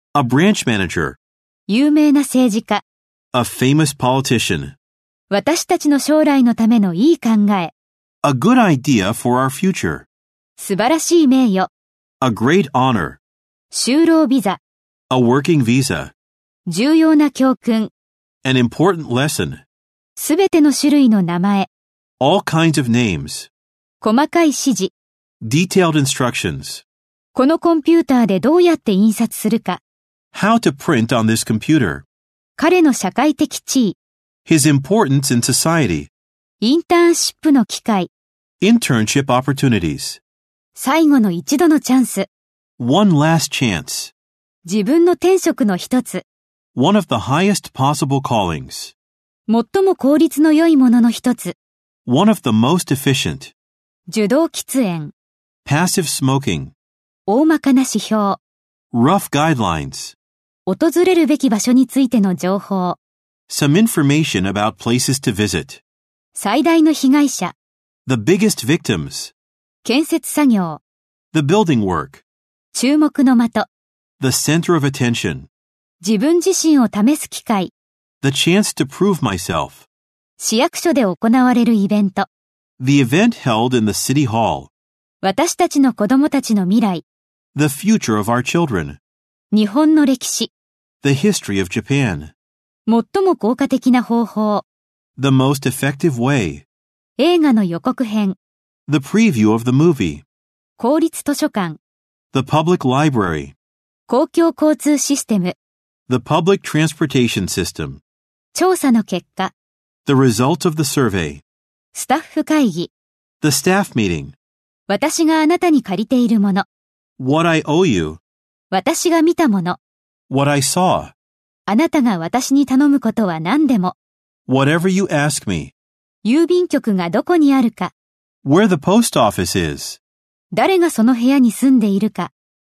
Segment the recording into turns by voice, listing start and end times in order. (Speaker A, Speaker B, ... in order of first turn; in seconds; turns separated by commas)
Speaker A: 0.1-1.2, Speaker B: 1.7-2.8, Speaker A: 3.3-4.8, Speaker B: 5.3-7.7, Speaker A: 8.2-10.1, Speaker B: 10.6-11.7, Speaker A: 12.2-13.2, Speaker B: 13.7-14.6, Speaker A: 15.1-16.1, Speaker B: 16.7-17.9, Speaker A: 18.4-19.6, Speaker B: 20.1-21.7, Speaker A: 22.2-23.5, Speaker B: 24.0-24.9, Speaker A: 25.4-26.8, Speaker B: 27.3-29.8, Speaker A: 30.3-32.0, Speaker B: 32.6-34.0, Speaker A: 34.5-36.1, Speaker B: 36.6-38.1, Speaker A: 38.6-40.2, Speaker B: 40.7-42.3, Speaker A: 42.8-44.1, Speaker B: 44.6-46.2, Speaker A: 46.7-48.9, Speaker B: 49.5-51.5, Speaker A: 52.0-53.5, Speaker B: 54.1-55.1, Speaker A: 55.6-56.7, Speaker B: 57.3-58.4, Speaker A: 58.9-60.1, Speaker B: 60.6-63.0, Speaker A: 63.5-65.8, Speaker B: 66.3-67.5, Speaker A: 68.0-69.3, Speaker B: 69.8-70.8, Speaker A: 71.3-72.2, Speaker B: 72.7-73.7, Speaker A: 74.2-75.5, Speaker B: 76.0-77.7, Speaker A: 78.2-79.9, Speaker B: 80.4-82.3, Speaker A: 82.8-84.7, Speaker B: 85.2-87.0, Speaker A: 87.5-89.0, Speaker B: 89.5-90.5, Speaker A: 91.0-92.3, Speaker B: 92.9-94.6, Speaker A: 95.2-96.6, Speaker B: 97.2-98.3, Speaker A: 98.9-100.2, Speaker B: 100.8-101.8, Speaker A: 102.3-103.5, Speaker B: 104.1-105.5, Speaker A: 106.1-108.0, Speaker B: 108.5-109.5, Speaker A: 110.0-111.4, Speaker B: 111.9-112.9, Speaker A: 113.4-114.3, Speaker B: 114.9-116.7, Speaker A: 117.2-118.2, Speaker B: 118.7-119.8, Speaker A: 120.3-121.1, Speaker B: 121.7-123.9, Speaker A: 124.5-125.7, Speaker B: 126.2-127.9, Speaker A: 128.4-130.0, Speaker B: 130.5-132.3